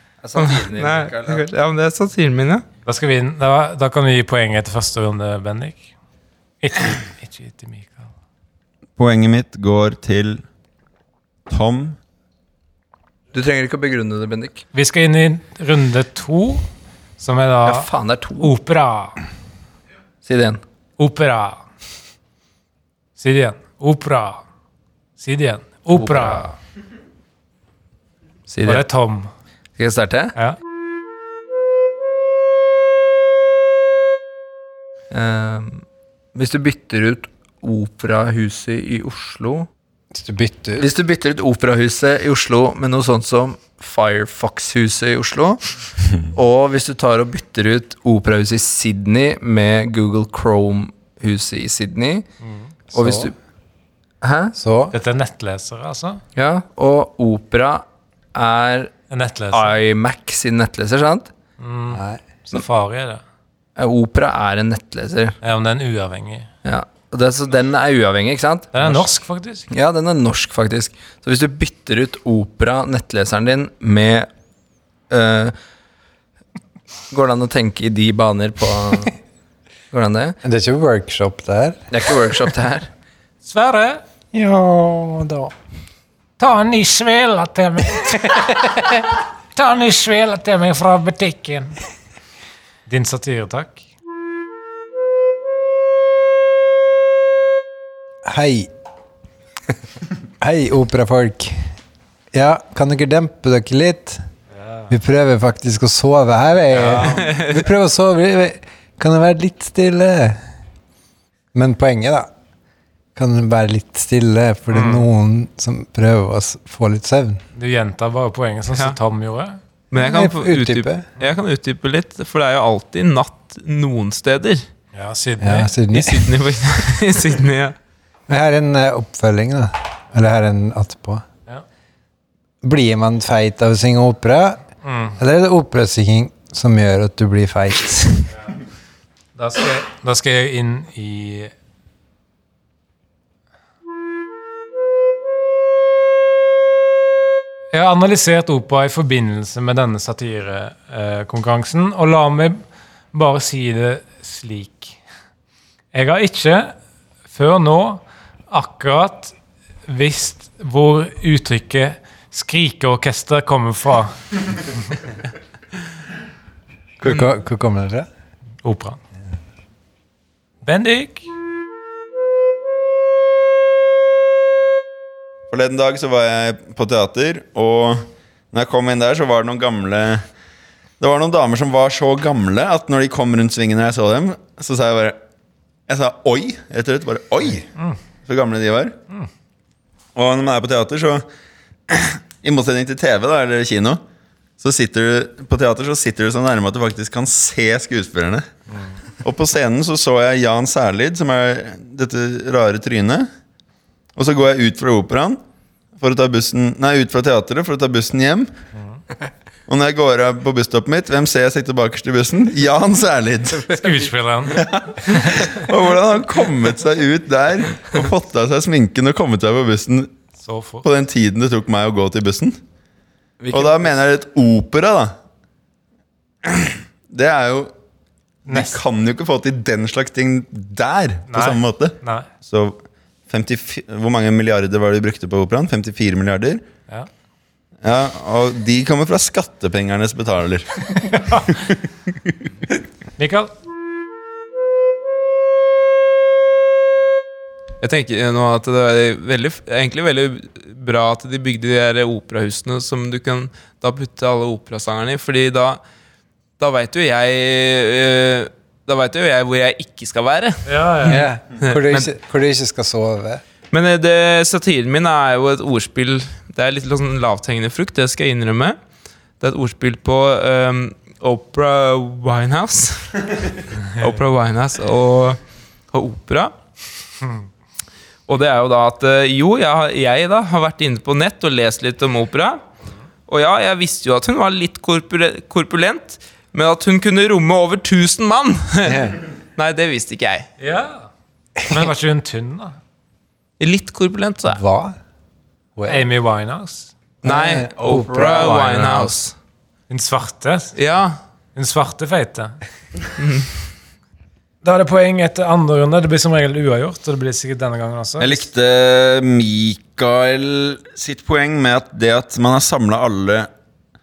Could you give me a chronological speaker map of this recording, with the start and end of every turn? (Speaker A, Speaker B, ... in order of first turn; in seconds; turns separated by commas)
Speaker A: 0.2-1.5, Speaker B: 0.4-2.6, Speaker C: 2.9-5.9, Speaker C: 6.6-8.1, Speaker D: 9.0-10.4, Speaker D: 11.5-12.0, Speaker A: 13.3-14.6, Speaker C: 14.7-16.6, Speaker C: 17.2-19.2, Speaker A: 17.6-18.5, Speaker A: 20.2-20.6, Speaker C: 21.0-21.6, Speaker C: 23.2-24.4, Speaker C: 25.2-26.4, Speaker A: 25.9-26.6, Speaker A: 28.5-28.9, Speaker C: 28.6-29.3, Speaker A: 29.8-30.3, Speaker A: 35.1-39.7, Speaker E: 40.1-40.9, Speaker A: 40.8-45.6, Speaker A: 46.2-52.2, Speaker C: 52.4-52.7, Speaker E: 52.9-53.3, Speaker A: 52.9-53.3, Speaker A: 54.2-54.5, Speaker E: 54.5-54.9, Speaker C: 54.9-56.2, Speaker A: 56.3-58.9, Speaker C: 59.1-59.8, Speaker A: 59.5-61.3, Speaker C: 61.6-63.2, Speaker E: 61.9-62.2, Speaker A: 63.8-65.3, Speaker C: 65.4-66.5, Speaker A: 66.6-69.0, Speaker C: 68.7-69.7, Speaker A: 69.7-74.3, Speaker A: 75.1-75.5, Speaker A: 77.1-79.2, Speaker A: 79.9-80.4, Speaker E: 80.4-82.2, Speaker A: 81.9-82.9, Speaker C: 83.4-84.0, Speaker E: 84.3-85.5, Speaker C: 86.4-91.8, Speaker C: 92.9-93.8, Speaker E: 98.2-98.7, Speaker E: 100.4-101.7, Speaker E: 102.3-104.2, Speaker C: 104.6-104.9, Speaker E: 104.9-110.4, Speaker C: 106.7-107.2, Speaker E: 111.5-112.3, Speaker E: 113.1-117.4, Speaker C: 114.7-115.0, Speaker C: 117.5-119.6, Speaker B: 119.9-124.6, Speaker E: 120.0-121.0, Speaker C: 124.9-125.7, Speaker E: 125.4-126.2, Speaker B: 125.9-127.7, Speaker E: 128.3-131.2, Speaker E: 132.6-138.3, Speaker C: 134.8-135.2, Speaker C: 139.3-141.5, Speaker C: 147.7-152.6, Speaker C: 153.1-155.0, Speaker C: 155.9-156.7, Speaker C: 157.3-159.3, Speaker C: 159.9-164.3, Speaker E: 167.0-168.1, Speaker C: 168.6-169.0, Speaker C: 170.6-171.2, Speaker D: 175.5-180.2, Speaker D: 181.0-185.2, Speaker D: 185.9-187.7, Speaker D: 188.2-188.9, Speaker D: 190.1-191.2, Speaker D: 191.9-194.0, Speaker D: 194.6-198.4, Speaker D: 199.2-203.3, Speaker D: 204.1-205.4, Speaker D: 206.0-208.5, Speaker D: 209.7-213.7, Speaker C: 213.7-215.3, Speaker D: 214.6-220.1, Speaker C: 220.4-220.9, Speaker D: 220.8-222.6, Speaker A: 223.4-223.9, Speaker D: 223.5-225.1, Speaker D: 226.4-227.7, Speaker C: 228.5-228.8, Speaker D: 228.5-236.6, Speaker C: 231.3-232.3, Speaker D: 237.8-241.3, Speaker C: 243.2-243.5, Speaker B: 247.8-255.8, Speaker B: 256.6-262.1, Speaker C: 260.6-261.2, Speaker E: 261.1-263.4, Speaker B: 263.7-268.8, Speaker B: 269.4-276.5, Speaker B: 278.3-282.6, Speaker B: 283.3-289.0, Speaker E: 288.8-289.2, Speaker B: 289.6-290.5, Speaker C: 290.6-291.1, Speaker C: 291.6-292.8, Speaker B: 293.6-294.6, Speaker E: 294.4-295.0, Speaker E: 295.8-296.1, Speaker C: 295.9-296.9, Speaker E: 297.2-298.8, Speaker B: 297.2-299.3, Speaker A: 297.3-299.3, Speaker C: 299.9-300.7, Speaker B: 300.8-301.2, Speaker C: 301.5-302.6, Speaker B: 303.2-303.5, Speaker C: 304.6-308.4, Speaker D: 308.2-313.5